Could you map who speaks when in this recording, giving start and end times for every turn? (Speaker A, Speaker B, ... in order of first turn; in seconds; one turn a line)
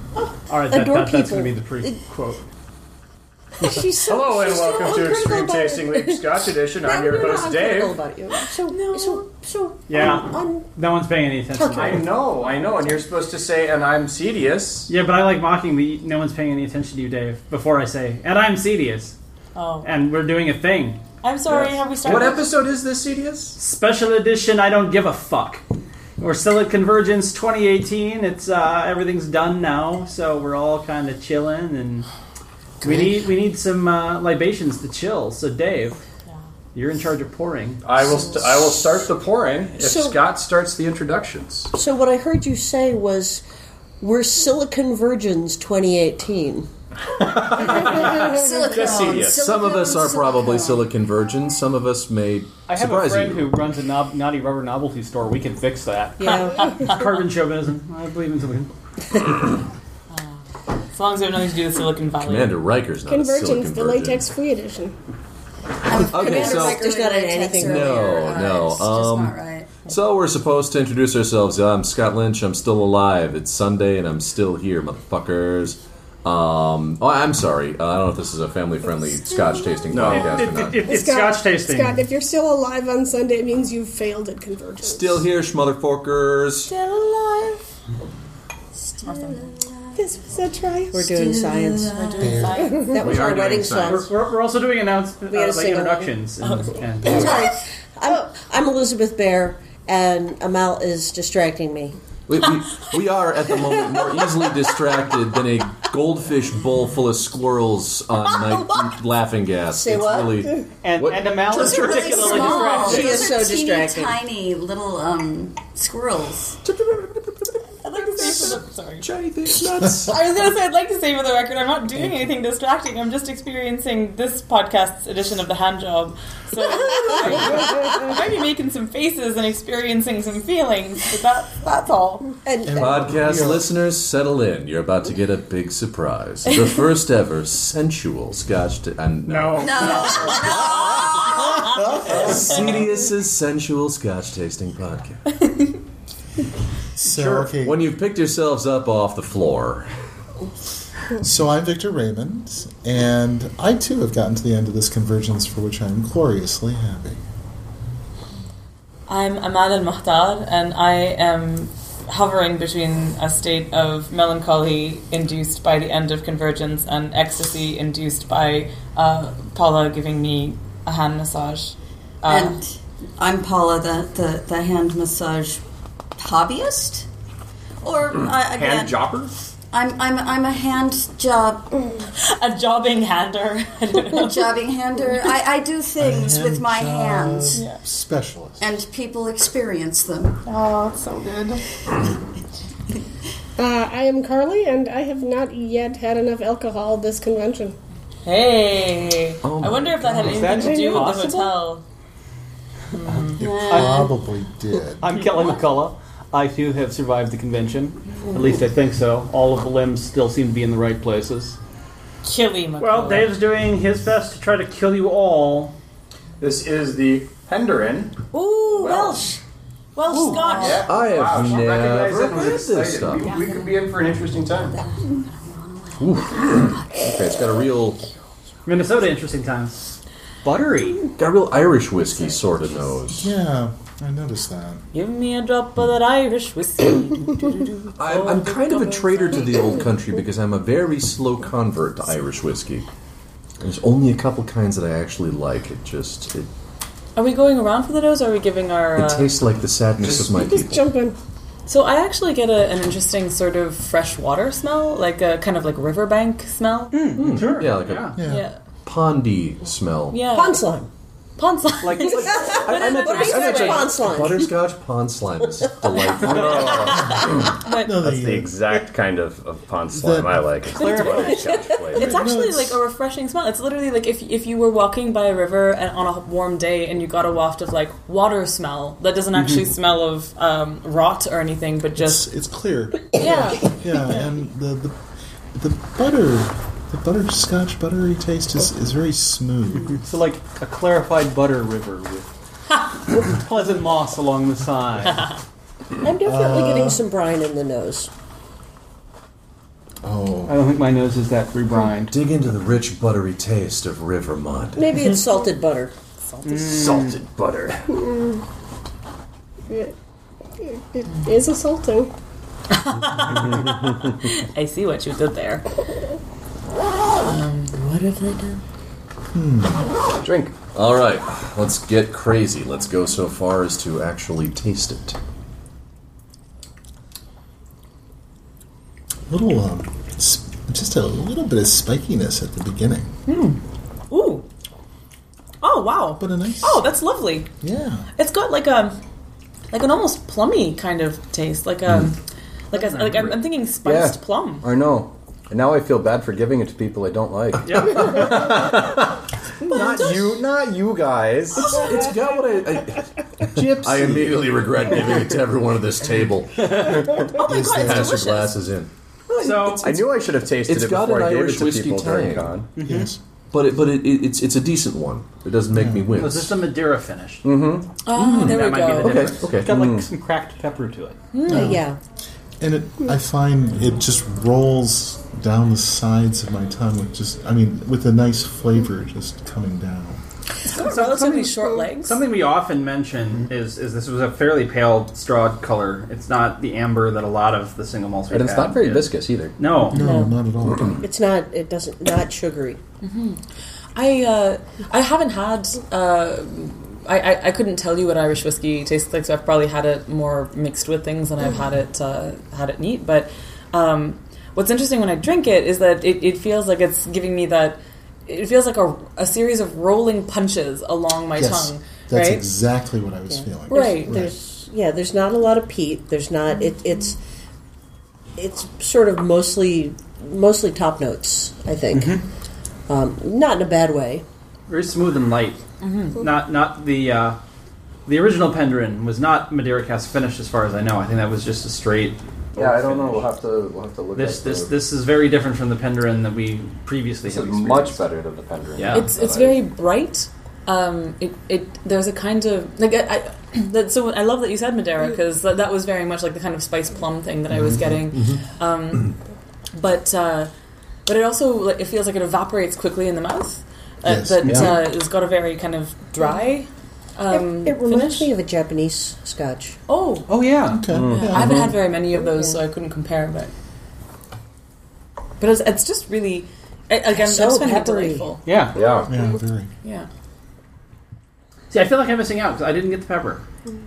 Speaker A: 0.5-2.4
Speaker B: 0.7-2.0
Speaker B: 3.6-6.2
Speaker C: 4.0-8.0
Speaker B: 6.8-10.6
Speaker D: 8.7-9.2
Speaker A: 9.9-12.1
Speaker B: 11.5-12.1
Speaker C: 11.7-14.9
Speaker A: 14.9-19.1
Speaker D: 19.6-19.9
Speaker A: 19.8-21.0
Speaker D: 21.2-22.5
Speaker C: 21.5-23.6
Speaker A: 23.6-25.6
Speaker A: 26.2-32.1
Speaker A: 32.8-36.0
Speaker A: 36.7-37.9
Speaker C: 37.8-41.7
Speaker B: 39.8-40.2
Speaker B: 41.7-43.4
Speaker B: 44.0-46.7
Speaker C: 47.2-49.4
Speaker E: 47.4-50.8
Speaker F: 49.0-53.6
Speaker G: 52.7-56.3
Speaker B: 56.2-56.7
Speaker D: 56.3-57.1
Speaker A: 56.8-58.7
Speaker D: 60.9-62.6
Speaker F: 62.2-64.3
Speaker H: 63.1-64.9
Speaker E: 65.8-69.7
Speaker F: 66.0-66.9
Speaker B: 66.0-68.1
Speaker F: 67.5-80.9
Speaker C: 79.9-80.5
Speaker A: 80.0-82.0
Speaker H: 80.8-85.3
Speaker F: 84.8-86.7
Speaker E: 88.9-90.0
Speaker D: 89.0-89.4
Speaker H: 89.9-91.1
Speaker B: 90.9-91.9
Speaker E: 91.0-92.5
Speaker D: 91.9-93.0
Speaker I: 92.2-92.8
Speaker H: 92.7-93.0
Speaker B: 92.8-94.1
Speaker C: 93.0-93.7
Speaker A: 93.8-97.3
Speaker B: 95.3-96.2
Speaker D: 96.4-96.8
Speaker B: 97.0-102.0
Speaker E: 97.0-97.5
Speaker F: 102.3-112.4
Speaker B: 109.7-110.6
Speaker G: 110.8-113.2
Speaker B: 111.5-114.2
Speaker E: 111.7-116.6
Speaker D: 112.0-112.8
Speaker F: 116.6-120.2
Speaker D: 117.8-119.0
Speaker D: 120.0-132.3
Speaker B: 132.4-133.1
Speaker I: 132.6-133.7
Speaker F: 132.8-140.4
Speaker A: 139.3-140.4
Speaker E: 139.6-141.8
Speaker D: 139.9-140.3
Speaker I: 141.7-142.9
Speaker F: 142.1-145.4
Speaker I: 147.0-147.9
Speaker A: 147.1-147.4
Speaker F: 147.6-149.9
Speaker I: 151.2-157.2
Speaker D: 159.1-172.6
Speaker E: 172.3-175.6
Speaker E: 176.2-177.1
Speaker E: 177.8-179.1
Speaker G: 178.7-179.2
Speaker E: 179.7-181.8
Speaker D: 182.2-184.5
Speaker E: 184.1-187.6
Speaker I: 186.0-188.7
Speaker E: 188.6-190.4
Speaker D: 190.4-191.6
Speaker H: 193.6-197.8
Speaker D: 198.2-201.8
Speaker F: 199.4-200.2
Speaker I: 200.1-200.3
Speaker G: 200.3-201.5
Speaker H: 200.6-201.3
Speaker D: 202.9-203.4
Speaker I: 203.0-205.2
Speaker E: 203.4-204.2
Speaker G: 205.0-211.6
Speaker D: 212.2-213.3
Speaker A: 212.8-215.7
Speaker C: 216.4-218.2
Speaker D: 218.3-219.4
Speaker C: 218.7-219.2
Speaker D: 219.9-220.9
Speaker G: 220.1-220.4
Speaker C: 220.2-224.8
Speaker F: 220.8-223.3
Speaker E: 224.7-227.1
Speaker F: 226.0-228.0
Speaker A: 228.7-229.8
Speaker G: 230.4-231.0
Speaker F: 231.2-233.3
Speaker I: 233.1-234.8
Speaker D: 234.9-239.5
Speaker F: 237.9-242.9
Speaker F: 243.6-246.5
Speaker D: 247.2-249.3
Speaker F: 248.9-250.9
Speaker H: 250.3-251.2
Speaker D: 251.7-257.2
Speaker G: 256.9-257.7
Speaker F: 257.1-258.2
Speaker A: 257.2-258.2
Speaker I: 258.1-258.5
Speaker D: 258.2-258.6
Speaker F: 258.8-260.3
Speaker D: 260.1-260.6
Speaker B: 260.3-260.9
Speaker D: 261.4-264.0
Speaker G: 261.8-263.1
Speaker F: 262.1-266.9
Speaker B: 262.2-264.5
Speaker C: 266.3-267.1
Speaker D: 266.3-268.0
Speaker I: 267.0-268.8
Speaker C: 268.0-272.2
Speaker I: 269.9-271.0
Speaker G: 270.8-271.2
Speaker D: 270.9-271.2
Speaker I: 271.9-272.8
Speaker D: 271.9-282.2
Speaker I: 282.0-284.9
Speaker D: 283.2-283.6
Speaker I: 285.5-290.1
Speaker G: 290.0-292.3
Speaker G: 293.3-295.3
Speaker B: 296.0-298.1
Speaker I: 296.2-297.0
Speaker I: 300.0-300.6
Speaker G: 300.5-302.1
Speaker F: 302.1-305.0
Speaker B: 304.8-306.8
Speaker G: 306.5-307.1
Speaker C: 306.7-307.8
Speaker H: 308.0-308.4
Speaker H: 309.7-309.9
Speaker H: 310.6-312.1
Speaker D: 312.7-315.6
Speaker D: 317.2-317.8
Speaker B: 317.7-318.6
Speaker I: 319.3-319.9
Speaker C: 320.2-320.5
Speaker F: 320.7-325.2
Speaker I: 329.3-333.1
Speaker D: 333.3-334.4
Speaker D: 335.6-337.5
Speaker I: 336.2-336.9
Speaker I: 337.6-338.1
Speaker D: 338.1-339.0
Speaker D: 339.7-342.2
Speaker A: 342.7-343.4
Speaker D: 342.7-344.7
Speaker C: 343.8-349.0
Speaker A: 347.6-348.5
Speaker C: 349.7-351.7
Speaker D: 349.8-350.1
Speaker D: 351.6-351.9
Speaker F: 351.6-362.6
Speaker I: 353.6-354.2
Speaker D: 357.3-358.6
Speaker I: 357.4-358.2
Speaker A: 359.4-359.9
Speaker C: 359.8-362.7
Speaker I: 362.8-363.2
Speaker G: 362.8-363.0
Speaker F: 363.5-366.6
Speaker I: 365.7-366.2
Speaker A: 366.1-367.4
Speaker C: 367.4-367.9
Speaker D: 368.0-369.3
Speaker F: 368.1-369.8
Speaker A: 368.3-369.4
Speaker G: 369.6-371.2
Speaker C: 369.6-370.1
Speaker D: 371.3-371.8
Speaker B: 371.4-372.0
Speaker I: 371.5-371.9
Speaker I: 372.6-380.2
Speaker D: 380.6-382.2
Speaker A: 380.7-390.0
Speaker C: 388.3-389.5
Speaker I: 389.9-391.0
Speaker B: 389.9-390.4
Speaker B: 391.0-392.8
Speaker D: 393.0-393.4
Speaker D: 393.9-412.4
Speaker I: 411.4-414.3
Speaker B: 413.6-417.2
Speaker D: 413.7-414.1
Speaker B: 418.4-422.2
Speaker B: 422.9-424.2
Speaker A: 424.7-425.6
Speaker D: 425.8-426.2
Speaker A: 426.2-427.4
Speaker A: 428.1-433.3
Speaker C: 432.5-434.7
Speaker A: 434.1-438.0
Speaker C: 437.2-439.6
Speaker A: 438.8-439.1
Speaker D: 438.9-449.1
Speaker F: 448.1-448.4
Speaker D: 449.7-450.5
Speaker D: 451.1-458.3
Speaker I: 454.0-454.9
Speaker B: 457.3-459.8
Speaker D: 459.9-460.3
Speaker G: 460.3-460.8
Speaker I: 460.6-461.7
Speaker C: 460.9-461.5
Speaker D: 461.0-463.5
Speaker B: 462.2-462.6
Speaker D: 465.4-468.4
Speaker B: 467.1-468.3
Speaker G: 468.4-468.8
Speaker C: 468.7-469.1
Speaker I: 469.1-469.7
Speaker A: 471.7-473.4